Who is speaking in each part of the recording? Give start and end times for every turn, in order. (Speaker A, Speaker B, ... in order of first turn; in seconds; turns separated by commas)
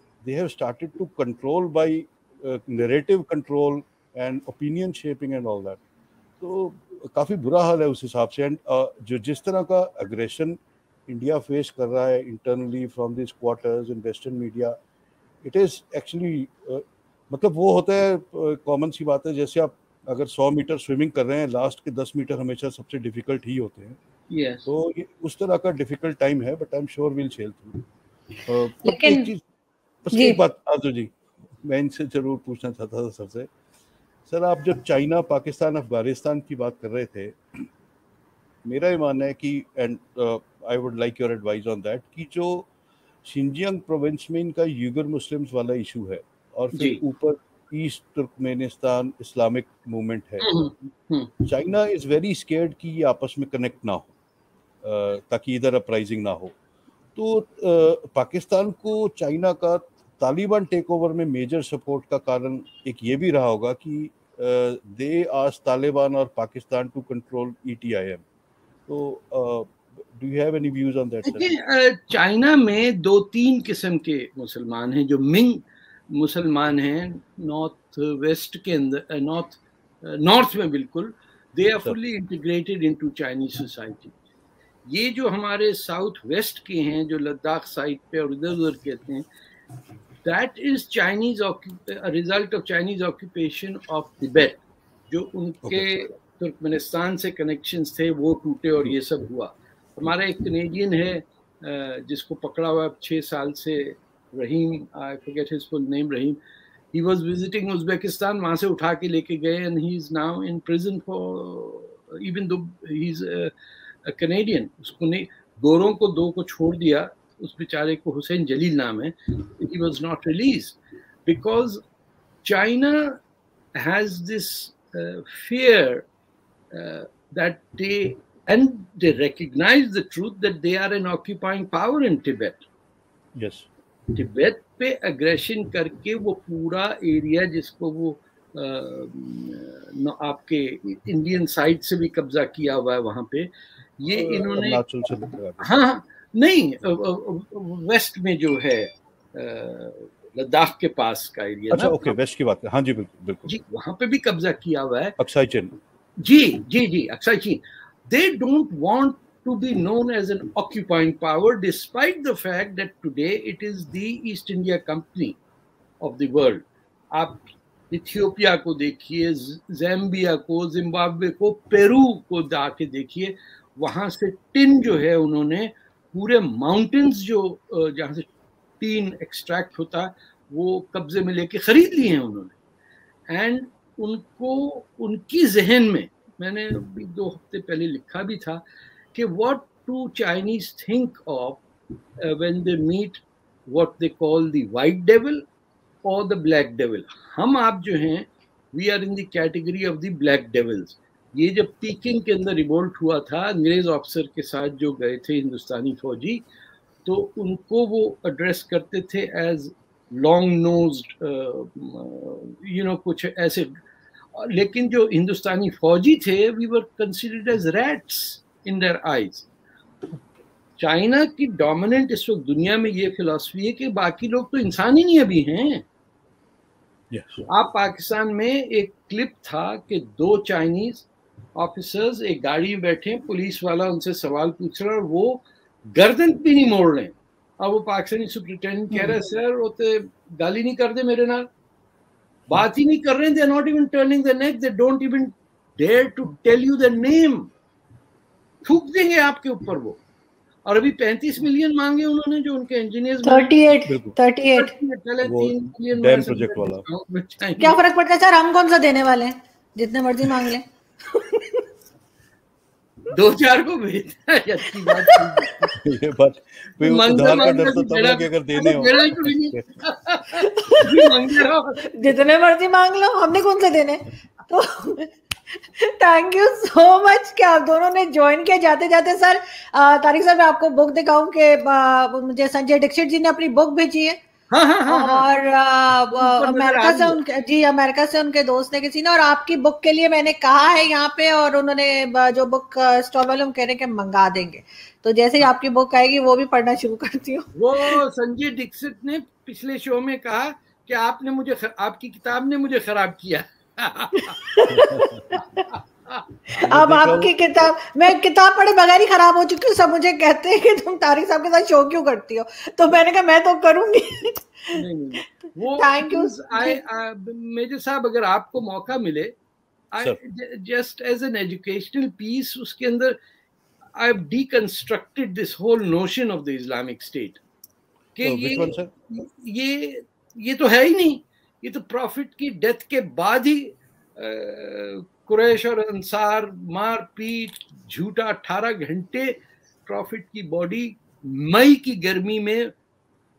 Speaker A: 0.2-5.8, Speaker A: 6.4-14.8, Speaker A: 15.4-24.0, Speaker B: 24.3-24.6, Speaker A: 24.6-27.8, Speaker A: 28.4-29.4, Speaker C: 28.8-29.3, Speaker A: 30.0-33.5, Speaker C: 30.1-30.4, Speaker A: 34.3-37.7, Speaker A: 38.6-42.7, Speaker A: 43.2-50.5, Speaker B: 46.7-47.0, Speaker B: 50.4-51.3, Speaker A: 51.4-54.1, Speaker A: 54.8-56.5, Speaker A: 57.1-68.2, Speaker A: 68.9-71.5, Speaker B: 71.2-84.1, Speaker B: 84.8-89.2, Speaker B: 90.2-106.4, Speaker A: 95.6-95.9, Speaker B: 106.9-113.5, Speaker B: 114.0-121.8, Speaker B: 122.4-123.2, Speaker B: 123.8-126.0, Speaker B: 126.7-132.6, Speaker A: 133.3-133.7, Speaker B: 134.1-144.8, Speaker A: 144.1-145.7, Speaker B: 145.6-152.1, Speaker A: 151.7-153.5, Speaker B: 153.5-155.2, Speaker A: 155.2-155.7, Speaker B: 156.2-165.4, Speaker B: 166.0-178.3, Speaker B: 178.8-182.5, Speaker B: 183.3-188.6, Speaker B: 189.1-191.6, Speaker B: 192.2-195.4, Speaker B: 196.0-206.4, Speaker B: 207.0-213.7, Speaker B: 214.3-219.5, Speaker B: 220.8-225.8, Speaker A: 227.1-227.4, Speaker B: 227.5-241.5, Speaker C: 238.9-239.2, Speaker B: 242.5-247.5, Speaker B: 248.6-250.0, Speaker B: 250.6-253.5, Speaker C: 253.2-254.7, Speaker A: 253.9-254.2, Speaker B: 254.6-257.8, Speaker A: 255.2-256.8, Speaker C: 257.6-260.6, Speaker B: 263.1-265.8, Speaker C: 264.8-265.2, Speaker A: 265.8-269.6, Speaker B: 266.8-272.1, Speaker C: 270.5-271.2, Speaker C: 271.9-284.2, Speaker B: 284.5-285.3, Speaker C: 284.9-298.0, Speaker B: 286.2-287.2, Speaker B: 297.6-304.4, Speaker C: 304.1-305.6, Speaker A: 304.7-305.2, Speaker B: 305.7-306.3, Speaker C: 306.5-315.2, Speaker A: 306.6-307.3, Speaker B: 314.7-319.4, Speaker C: 315.8-316.8, Speaker B: 319.9-323.2, Speaker B: 323.9-327.4, Speaker B: 328.1-342.7, Speaker A: 328.2-328.9